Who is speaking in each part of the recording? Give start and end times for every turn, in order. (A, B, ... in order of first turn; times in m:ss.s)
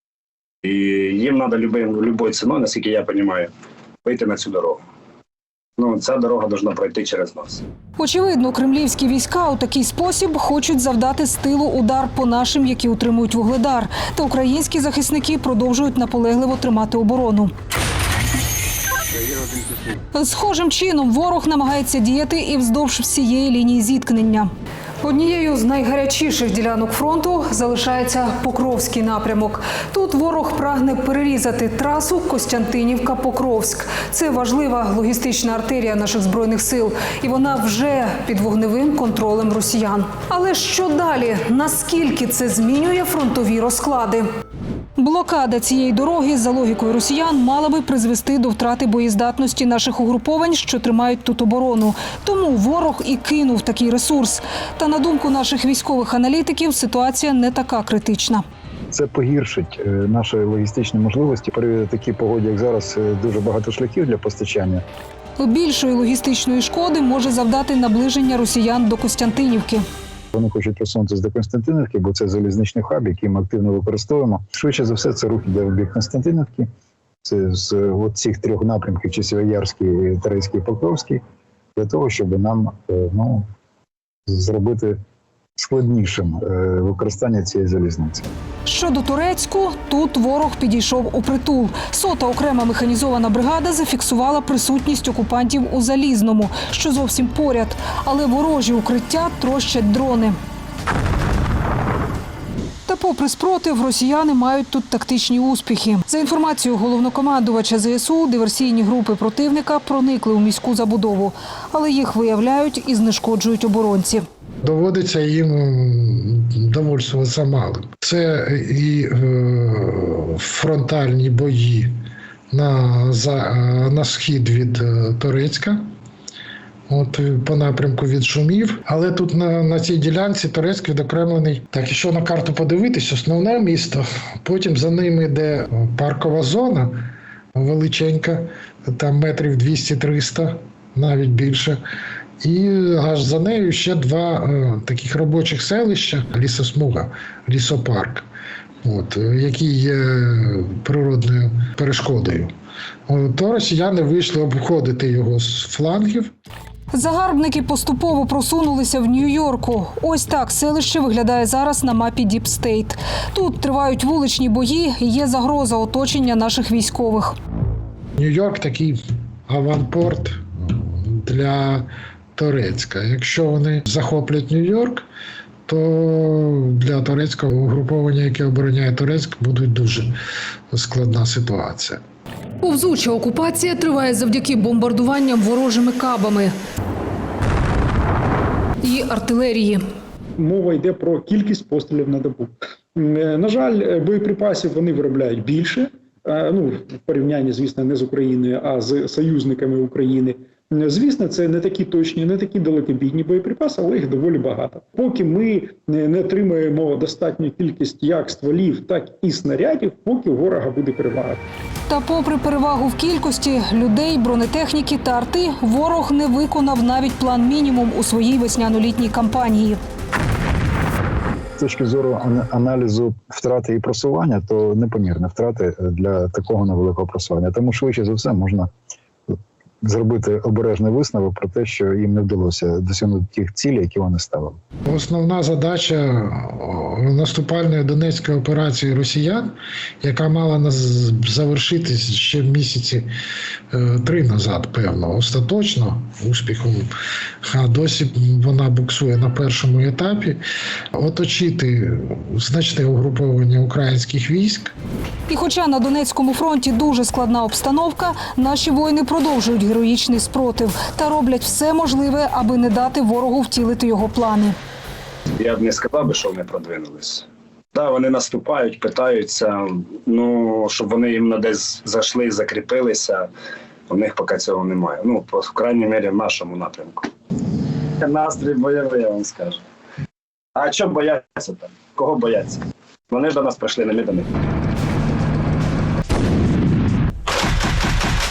0:00.6-0:03.5 A
0:04.0-0:04.8 A
0:05.8-0:07.6 A
0:08.0-0:17.5 B
0:20.1-0:24.5 B
0:25.0-0:44.3 B
0:45.0-0:58.4 B
0:58.9-1:04.8 C
1:05.4-1:09.8 B
1:10.3-1:16.7 C
1:17.2-1:21.2 C
1:21.8-1:23.4 C
1:24.3-1:25.0 C
1:25.6-1:28.3 C
1:28.6-1:40.4 B
1:42.9-1:54.2 B
1:54.6-2:01.9 D
2:02.5-2:05.8 D
2:06.9-2:17.0 D
2:17.6-2:21.8 D
2:22.4-2:28.3 D
2:28.8-2:32.5 D
2:33.1-2:36.3 D
2:36.9-2:47.4 B
2:48.2-2:49.0 D
2:49.5-2:55.0 D
2:55.7-3:00.1 D
3:00.7-3:02.0 D
3:02.6-3:06.6 B
3:08.8-3:09.8 B
3:10.4-3:31.4 E
3:31.9-3:39.8 B
3:41.6-3:48.7 C
3:49.3-3:54.6 C
3:54.9-4:03.1 D
4:03.7-4:06.9 D
4:07.4-4:10.4 D
4:11.0-4:14.7 D
4:15.3-4:24.6 B
4:25.4-4:33.3 A
4:33.9-4:37.1 A
4:38.0-4:39.6 A
4:40.6-4:44.3 A